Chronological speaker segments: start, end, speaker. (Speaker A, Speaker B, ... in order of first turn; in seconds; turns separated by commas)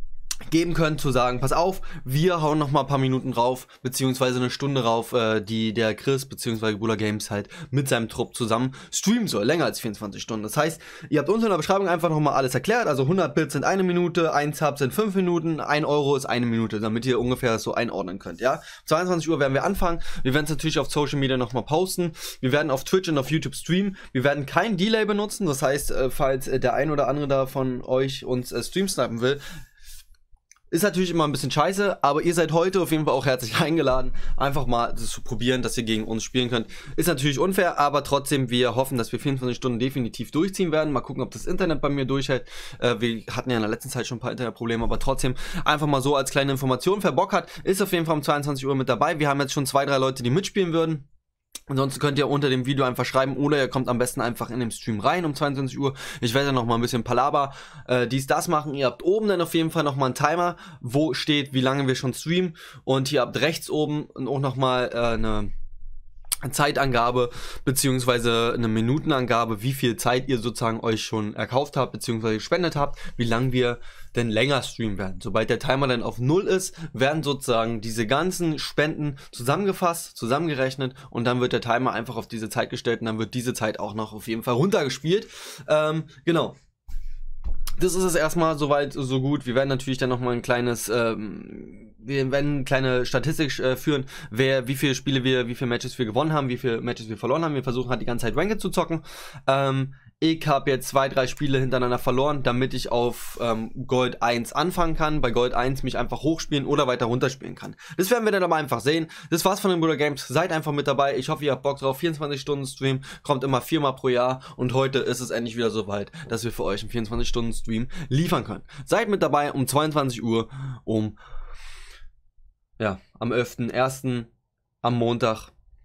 Speaker A: 0.5-29.4, Speaker A: 30.7-51.1, Speaker A: 51.7-65.5, Speaker A: 66.4-86.5, Speaker A: 87.8-121.2, Speaker A: 122.8-124.3, Speaker A: 124.8-125.5